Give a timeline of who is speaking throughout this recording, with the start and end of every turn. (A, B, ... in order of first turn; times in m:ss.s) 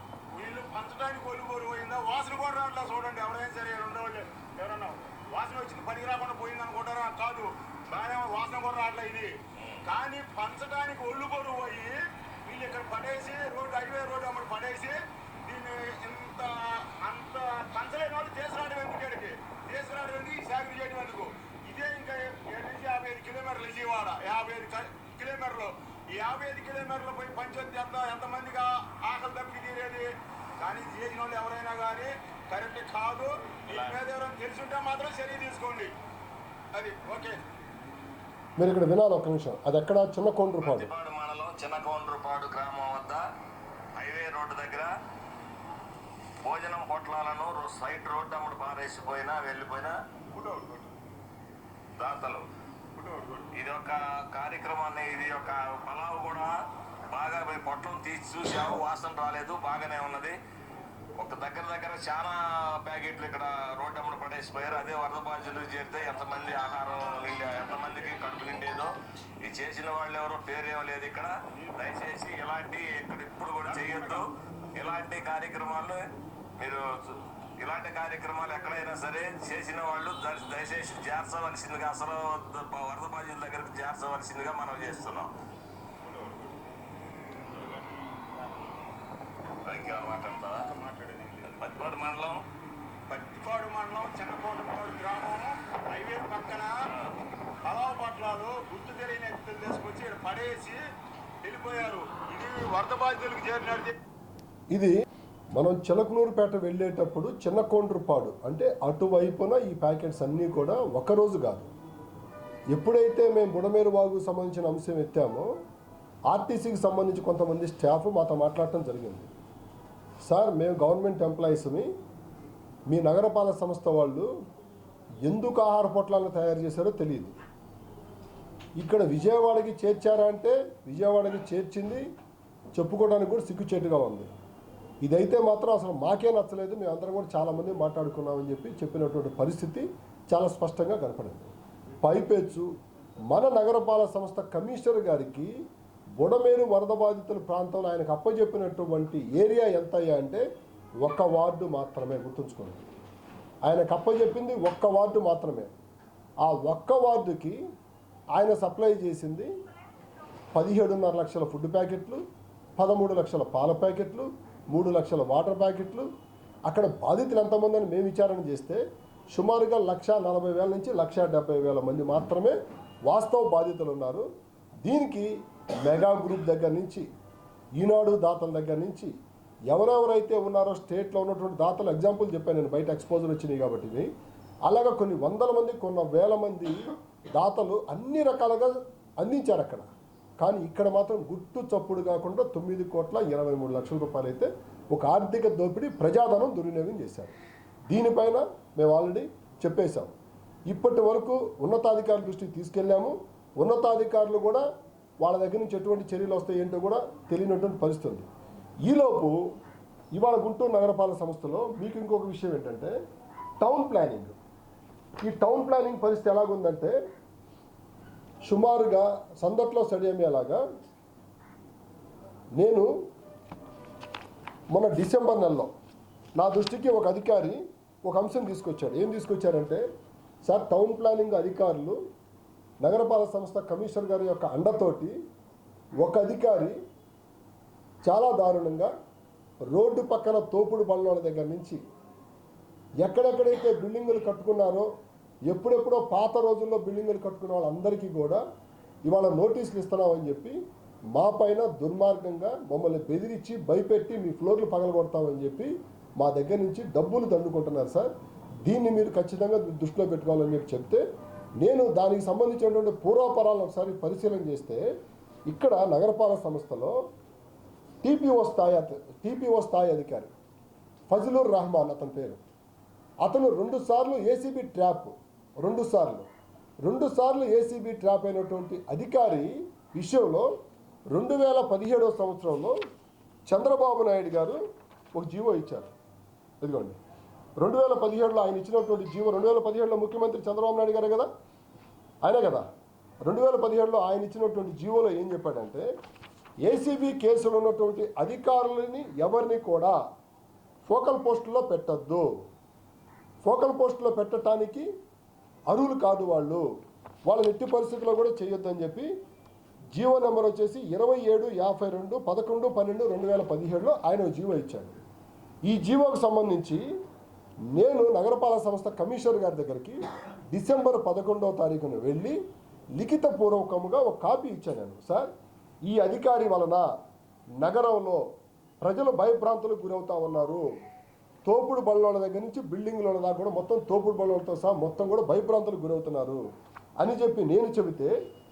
0:00.3-0:35.9 A
0:33.7-0:34.0 B
0:36.7-0:37.4 A
0:38.6-0:40.9 C
0:40.6-0:43.2 B
0:44.0-0:44.9 B
0:46.4-0:50.0 B
0:50.3-0:50.9 A
0:52.0-0:52.4 B
0:53.0-0:53.4 A
0:53.4-0:56.5 B
0:57.1-1:00.4 B
1:01.2-1:16.0 B
1:13.6-1:14.3 A
1:16.6-1:25.3 B
1:26.0-1:26.5 A
1:27.6-1:27.8 B
1:29.7-1:30.6 B
1:30.6-1:31.7 A
1:31.5-1:32.4 B
1:33.1-1:36.8 A
1:37.6-1:40.8 A
1:41.4-1:44.0 A
1:44.7-1:45.0 C
1:45.6-1:51.7 C
1:52.7-1:55.5 C
1:56.3-1:59.3 C
2:00.2-2:01.9 C
2:02.9-2:04.3 C
2:05.2-2:07.3 C
2:08.8-2:12.0 C
2:12.8-2:14.3 C
2:15.0-2:22.7 C
2:23.3-2:25.5 C
2:26.2-2:30.4 C
2:31.0-2:32.9 C
2:33.6-2:35.7 C
2:36.4-2:37.6 C
2:38.4-2:39.5 C
2:40.6-2:42.2 C
2:42.8-2:46.1 C
2:46.7-2:48.8 C
2:49.3-2:52.6 C
2:53.1-2:54.2 C
2:54.8-2:55.3 C
2:55.8-2:57.1 C
2:57.8-2:59.1 C
2:59.7-3:04.1 C
3:04.7-3:06.8 C
3:07.3-3:09.9 C
3:10.4-3:17.4 C
3:17.9-3:20.1 C
3:20.7-3:24.6 C
3:25.2-3:28.3 C
3:28.9-3:29.4 C
3:30.1-3:32.9 C
3:33.6-3:34.4 C
3:35.2-3:37.0 C
3:38.4-3:40.6 C
3:42.6-3:42.9 C
3:44.7-3:45.7 C
3:46.4-3:49.8 C
3:50.4-3:52.0 C
3:52.8-3:55.1 C
3:56.0-3:56.8 C
3:58.0-3:58.9 C
3:59.7-4:01.8 C
4:03.0-4:04.9 C
4:05.5-4:08.4 C
4:09.1-4:10.6 C
4:11.2-4:18.1 C
4:18.7-4:21.0 C
4:21.6-4:24.8 C
4:25.5-4:27.0 C
4:28.0-4:30.3 C
4:31.1-4:32.4 C
4:33.2-4:36.3 C
4:36.8-4:40.5 C
4:41.1-4:42.8 C
4:43.5-4:44.6 C
4:45.2-4:45.9 C
4:46.6-4:47.0 C
4:47.6-4:51.3 C
4:52.2-4:52.7 C
4:53.2-4:55.8 C
4:56.7-5:00.0 C
5:00.9-5:02.3 C
5:03.4-5:04.9 C
5:05.7-5:06.6 C
5:07.3-5:09.1 C
5:09.9-5:15.0 C
5:15.7-5:16.8 C
5:17.7-5:20.0 C
5:20.5-5:22.4 C
5:23.0-5:25.3 C
5:25.9-5:26.9 C
5:27.6-5:28.2 C
5:28.8-5:30.6 C
5:31.4-5:36.4 C
5:37.0-5:38.1 C